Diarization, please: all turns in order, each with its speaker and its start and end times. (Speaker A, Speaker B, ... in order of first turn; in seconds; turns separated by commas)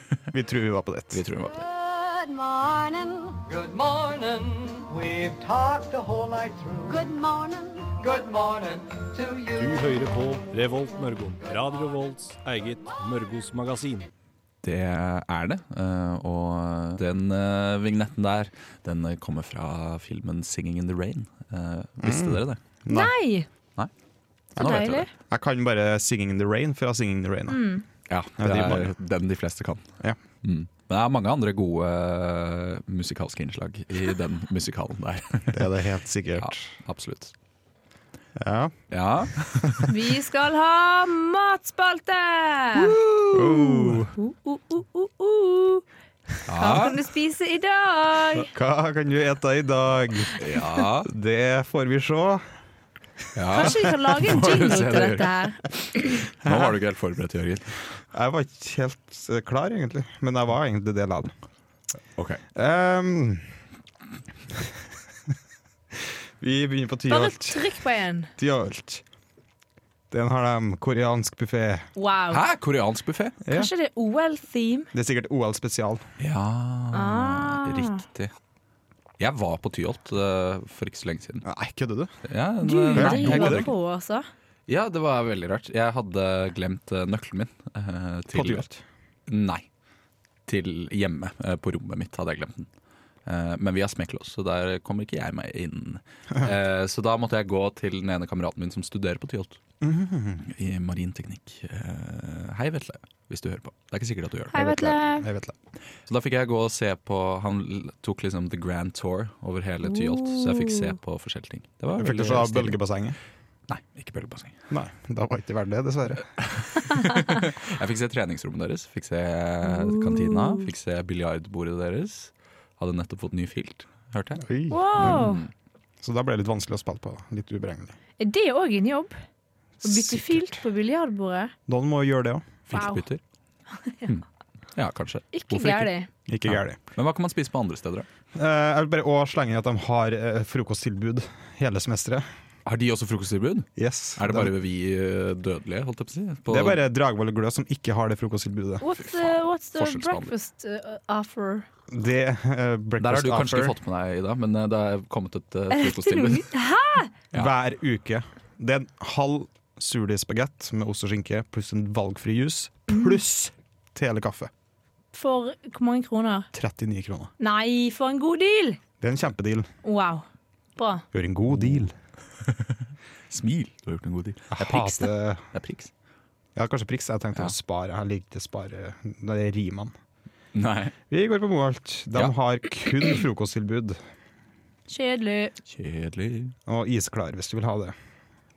Speaker A: 0.3-1.2, Speaker B: 1.1-1.7, Speaker C: 1.6-3.4, Speaker D: 3.5-7.0, Speaker C: 6.9-7.9, Speaker D: 8.0-9.8, Speaker E: 9.6-14.1, Speaker B: 14.6-22.6, Speaker A: 22.0-23.1, Speaker F: 22.9-23.5, Speaker B: 24.6-25.1, Speaker A: 24.6-27.7, Speaker F: 24.6-25.1, Speaker F: 27.5-27.8, Speaker B: 28.1-29.9, Speaker A: 28.4-28.9, Speaker B: 30.4-35.7, Speaker A: 35.5-36.6, Speaker B: 36.4-37.3, Speaker A: 38.4-38.8, Speaker B: 38.9-39.9, Speaker F: 39.9-45.9, Speaker B: 42.8-43.8, Speaker A: 43.3-44.1, Speaker F: 46.4-48.5, Speaker B: 46.5-47.0, Speaker A: 48.5-50.4, Speaker B: 50.4-51.1, Speaker A: 51.0-52.5, Speaker B: 53.4-55.4, Speaker F: 53.5-56.1, Speaker B: 56.3-57.8, Speaker A: 56.5-56.7, Speaker A: 58.1-61.4, Speaker A: 62.5-63.5, Speaker A: 66.4-67.7, Speaker F: 67.1-68.3, Speaker A: 68.4-69.0, Speaker A: 70.1-71.9, Speaker F: 72.0-72.4, Speaker B: 72.3-73.4, Speaker A: 73.5-73.7, Speaker F: 73.5-74.9, Speaker A: 74.9-76.0, Speaker B: 76.2-78.3, Speaker F: 76.9-78.0, Speaker B: 79.2-81.5, Speaker A: 81.4-82.1, Speaker B: 82.3-83.7, Speaker F: 82.6-84.3, Speaker A: 82.9-83.7, Speaker B: 84.7-88.7, Speaker A: 88.3-88.8, Speaker B: 89.3-89.7, Speaker B: 90.5-92.7, Speaker B: 93.3-99.6, Speaker A: 99.8-100.5, Speaker B: 100.4-104.8, Speaker F: 104.5-105.3, Speaker A: 104.6-105.5, Speaker B: 106.1-112.8, Speaker F: 109.9-110.9, Speaker A: 112.0-113.2, Speaker B: 113.7-114.5, Speaker A: 114.7-116.3, Speaker B: 116.4-124.4, Speaker F: 119.7-120.7, Speaker A: 124.4-125.3, Speaker F: 124.7-125.4, Speaker B: 125.0-125.5, Speaker A: 126.0-128.0, Speaker F: 128.2-129.2, Speaker F: 129.8-131.5, Speaker A: 131.7-132.5, Speaker B: 132.7-133.2, Speaker F: 132.7-133.1, Speaker F: 133.8-134.1, Speaker B: 134.8-135.9, Speaker F: 135.3-136.1, Speaker A: 136.3-136.8, Speaker B: 136.4-138.1, Speaker A: 138.3-142.3, Speaker B: 142.7-146.8, Speaker A: 143.8-144.5, Speaker A: 146.5-148.8, Speaker F: 148.8-151.7, Speaker B: 149.0-150.3, Speaker A: 151.9-153.8, Speaker B: 153.0-156.5, Speaker F: 155.7-157.1, Speaker A: 157.3-164.5, Speaker F: 165.1-166.5, Speaker A: 166.5-167.3, Speaker F: 167.4-168.8, Speaker A: 169.0-169.7, Speaker F: 169.8-170.2, Speaker F: 170.8-171.1, Speaker A: 171.1-171.9, Speaker B: 171.5-171.9, Speaker B: 172.4-172.8, Speaker B: 173.3-175.9, Speaker A: 174.5-175.5, Speaker A: 176.6-179.9, Speaker B: 180.5-180.9, Speaker A: 181.1-184.0, Speaker F: 184.9-185.6, Speaker B: 185.7-186.5, Speaker A: 186.7-187.9